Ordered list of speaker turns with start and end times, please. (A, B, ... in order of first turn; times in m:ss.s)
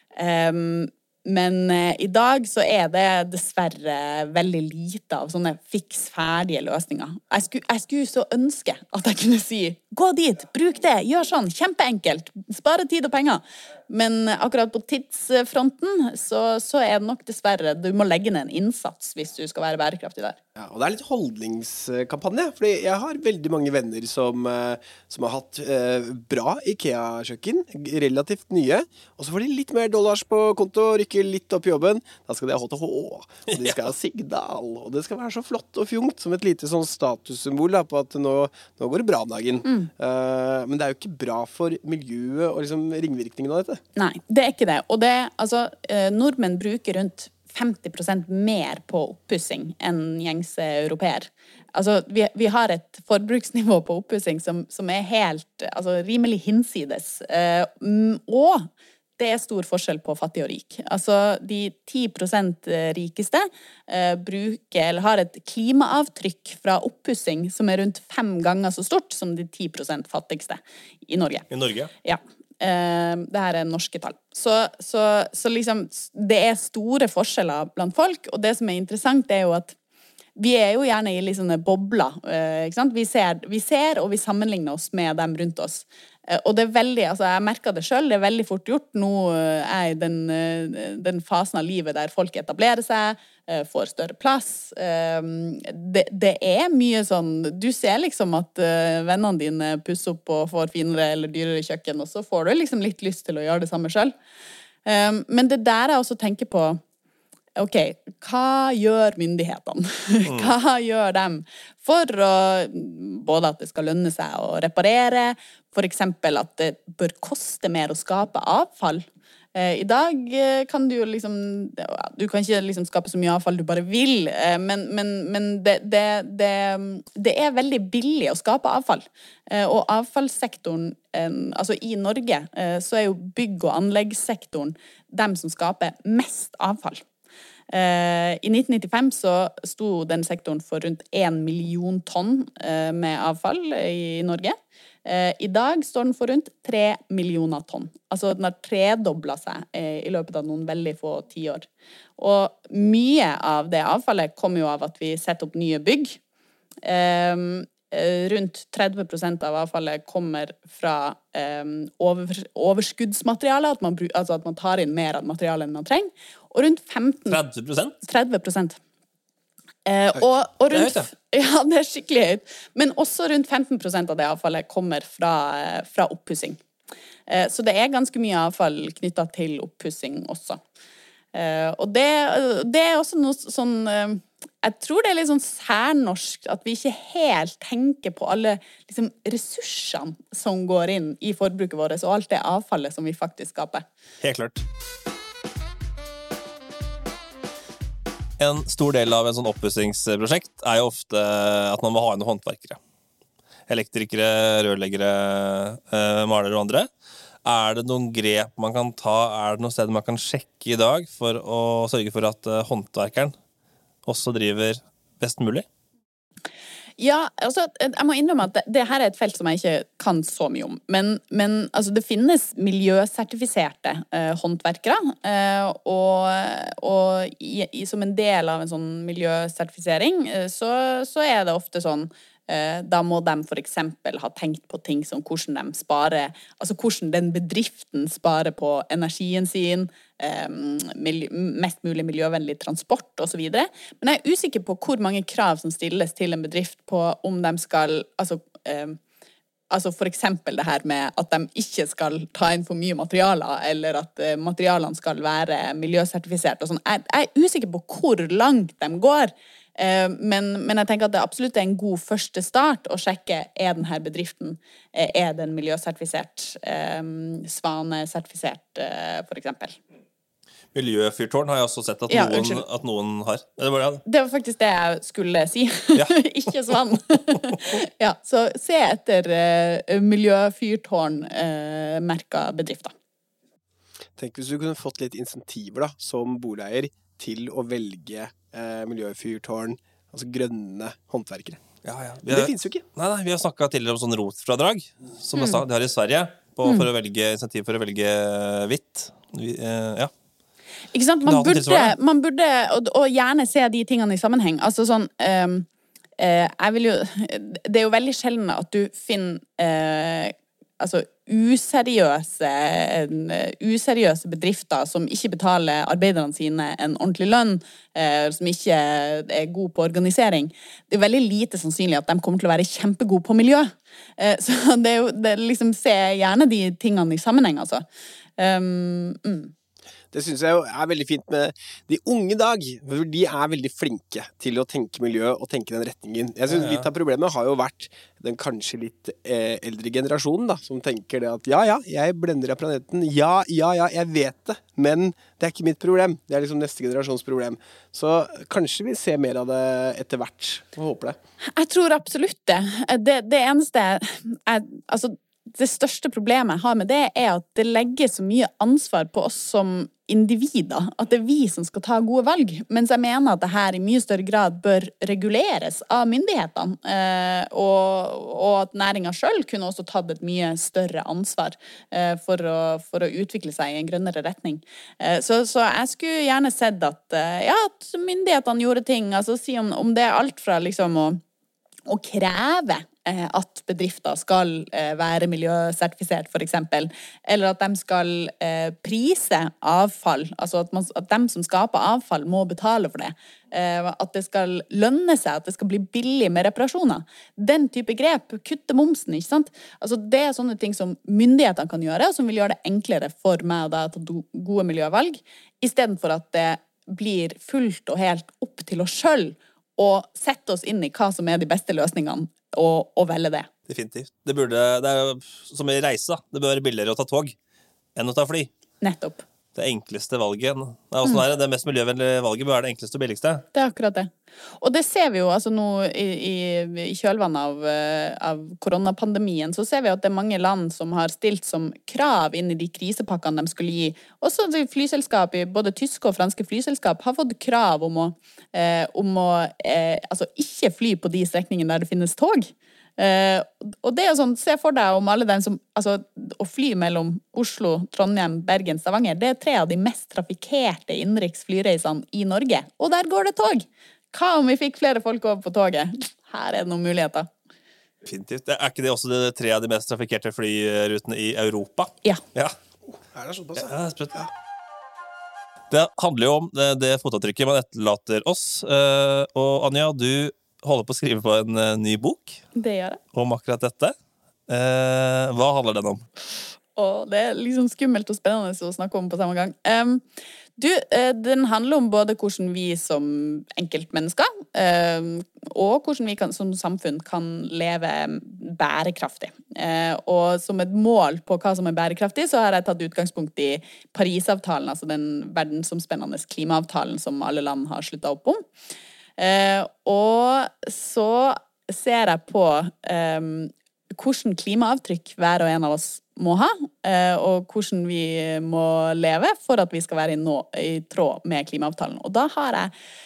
0:00.2-0:20.4 A
0:20.6-0:43.8 B
0:44.0-1:11.5 A
1:11.5-1:11.9 C
1:12.0-1:19.8 A
1:20.4-1:44.1 A
1:44.8-1:46.8 A
1:47.6-2:17.0 A
1:50.3-1:50.5 C
2:17.7-2:36.2 A
2:36.8-2:47.4 A
2:47.3-2:48.0 C
2:48.0-2:48.8 A
2:49.9-2:56.6 A
2:50.7-2:51.1 C
2:57.3-3:00.6 A
3:01.3-3:13.8 A
3:14.2-3:14.6 C
3:18.4-3:22.8 C
3:23.7-3:26.9 C
3:27.4-3:33.4 C
3:34.0-3:35.7 C
3:37.0-4:09.0 A
4:09.7-4:29.8 A
4:30.7-4:34.0 C
4:32.1-4:32.6 A
4:34.1-4:42.9 A
4:44.2-4:51.6 B
4:51.8-5:00.1 C
4:52.3-4:52.8 B
4:55.4-4:55.6 A
5:00.9-5:05.7 A
5:01.3-5:01.9 C
5:06.2-5:27.8 A
5:28.4-5:29.5 A
5:30.1-5:51.2 B
5:36.5-5:36.9 C
5:51.5-6:21.2 A
6:21.9-6:53.5 A
6:53.7-6:57.4 C
6:58.0-6:58.5 C
6:58.8-6:59.2 A
6:59.6-7:03.4 C
7:03.5-7:37.3 A
7:38.0-7:42.6 C
7:43.0-7:44.3 B
7:43.6-7:44.2 C
7:45.7-7:52.4 C
7:52.6-7:53.0 A
7:53.1-7:53.9 C
7:54.5-7:56.0 C
7:56.8-8:00.0 A
8:00.6-8:18.4 A
8:19.2-8:32.7 A